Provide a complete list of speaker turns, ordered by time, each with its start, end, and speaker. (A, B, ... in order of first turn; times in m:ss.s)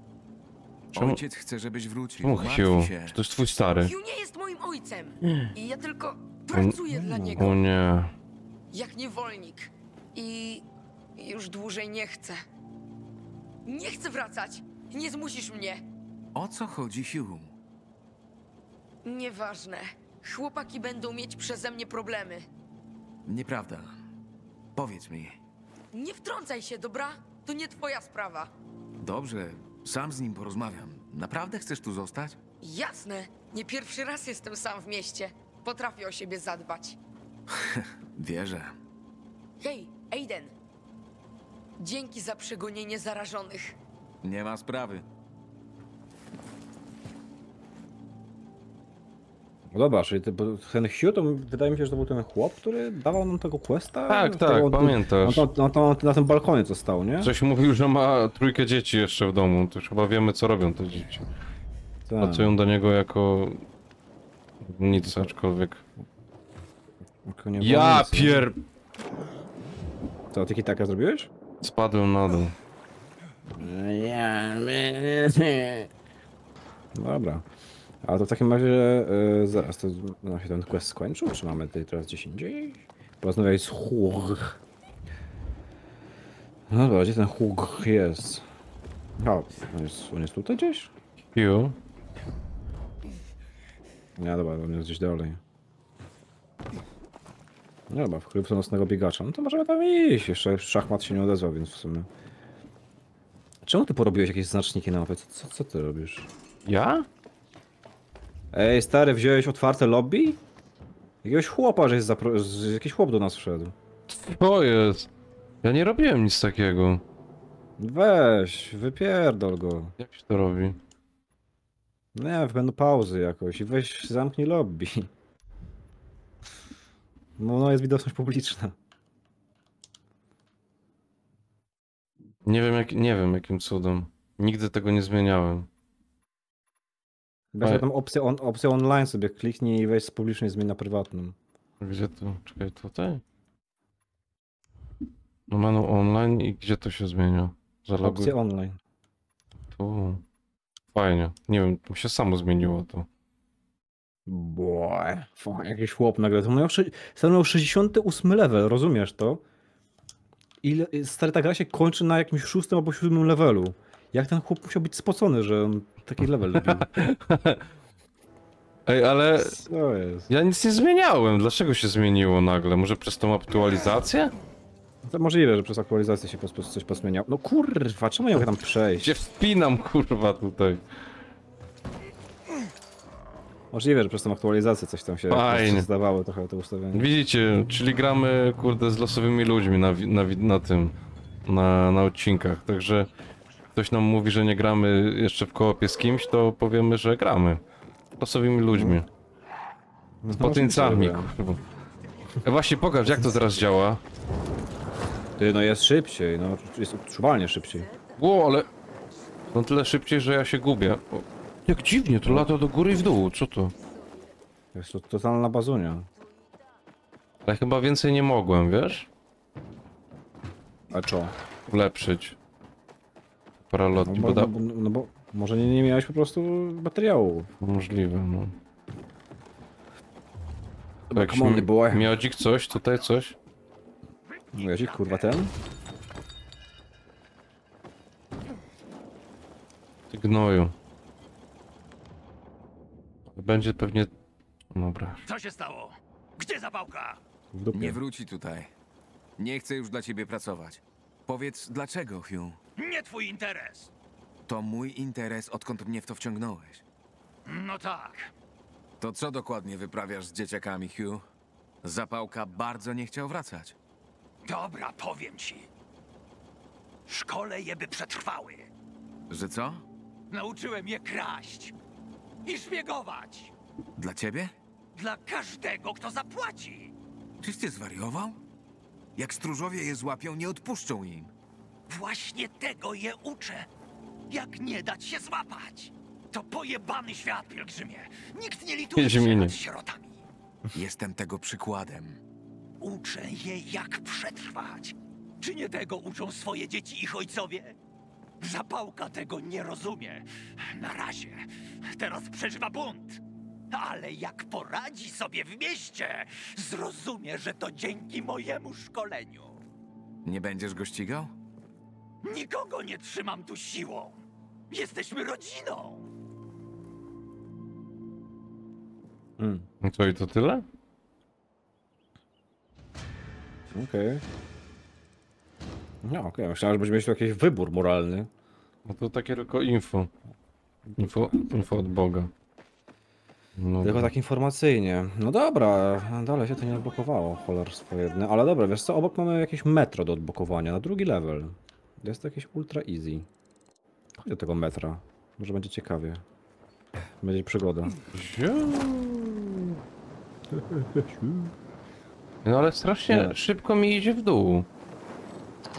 0:00.9-0:01.2 A
0:00.9-0:03.2 B
0:02.2-0:03.9 A
0:03.8-0:07.5 C
0:06.5-0:08.1 A
0:07.0-0:07.5 D
0:08.7-0:10.6 C
0:11.2-0:12.4 C
0:13.6-0:15.8 C
0:16.3-0:17.5 B
0:19.0-0:22.4 C
0:23.2-0:23.9 B
0:24.7-0:25.4 B
0:25.9-0:28.5 C
0:29.0-0:32.4 B
0:32.6-0:37.0 C
0:37.5-0:38.7 B
0:39.6-0:40.5 C
0:41.8-0:43.8 C
0:44.2-0:45.0 B
0:49.7-0:57.3 D
0:54.1-0:55.4 A
0:57.2-1:01.2 A
1:02.1-1:02.6 D
1:02.2-1:03.6 A
1:04.6-1:05.8 A
1:05.0-1:05.3 D
1:07.2-1:08.5 D
1:07.6-1:08.6 A
1:10.3-1:11.3 D
1:11.6-1:12.6 A
1:13.6-1:15.9 D
1:16.9-1:17.4 D
1:18.0-1:24.6 D
1:26.7-1:28.4 D
1:29.2-1:30.9 D
1:31.3-1:31.8 A
1:34.2-1:35.4 D
1:37.9-1:42.1 D
1:43.6-1:46.3 D
1:46.6-1:47.1 A
1:48.5-1:50.4 D
1:51.2-1:53.7 D
1:54.1-1:55.1 A
1:55.6-1:57.0 A
1:57.8-1:59.9 D
2:00.0-2:00.8 A
2:02.2-2:05.1 D
2:07.4-2:08.7 D
2:12.4-2:15.7 A
2:17.5-2:21.4 D
2:21.8-2:23.2 A
2:25.5-2:28.3 A
2:28.0-2:28.8 D
2:29.7-2:30.2 A
2:30.9-2:33.1 A
2:34.3-2:39.4 D
2:40.6-2:47.0 D
2:46.5-2:47.6 A
2:48.9-2:49.6 A
2:49.4-2:50.3 D
2:50.3-2:54.3 A
2:55.0-2:59.1 D
2:59.0-3:00.8 A
3:03.7-3:07.1 D
3:05.3-3:05.9 A
3:06.9-3:10.9 A
3:11.4-3:13.1 A
3:13.8-3:17.6 A
3:18.2-3:19.0 A
3:18.7-3:19.0 D
3:20.2-3:21.3 D
3:20.4-3:21.6 A
3:22.4-3:24.0 A
3:25.4-3:27.9 D
3:28.2-3:28.7 A
3:29.5-3:33.7 A
3:34.7-3:36.1 D
3:37.4-3:39.1 A
3:40.9-3:41.3 D
3:41.7-3:42.4 A
3:43.7-3:44.5 A
3:44.0-3:47.5 D
3:47.6-3:48.6 A
3:51.1-3:52.1 D
3:51.1-3:53.4 A
3:54.5-3:55.5 D
4:00.1-4:00.7 A
4:03.3-4:04.1 A
4:04.7-4:05.2 A
4:05.2-4:07.2 E
4:07.5-4:08.0 D
4:07.7-4:08.7 B
4:09.4-4:12.6 B
4:12.8-4:13.9 E
4:14.5-4:16.8 B
4:17.4-4:18.3 E
4:19.0-4:21.2 B
4:21.8-4:23.8 B
4:24.4-4:25.7 E
4:27.1-4:28.7 E
4:29.3-4:29.8 B
4:30.3-4:31.7 E
4:32.4-4:33.5 E
4:34.0-4:34.5 B
4:34.9-4:36.9 E
4:37.4-4:38.4 B
4:39.2-4:41.3 B
4:41.9-4:43.7 E
4:44.3-4:50.2 E
4:49.0-4:49.6 A
4:50.7-4:52.2 B
4:52.8-4:57.8 E
4:58.4-5:09.6 E
5:10.2-5:11.3 B
5:12.2-5:16.1 E
5:19.4-5:19.6 D
5:19.8-5:20.6 A
5:23.7-5:24.2 D
5:26.0-5:28.3 D
5:28.8-5:30.1 A
5:30.9-5:31.9 D
5:31.0-5:32.3 A
5:33.6-5:34.1 A
5:33.8-5:43.3 D
5:44.2-5:46.2 D
5:47.2-5:48.0 D
5:48.1-5:49.7 A
5:50.5-5:51.5 D
5:52.4-5:54.7 A
5:53.1-5:53.4 D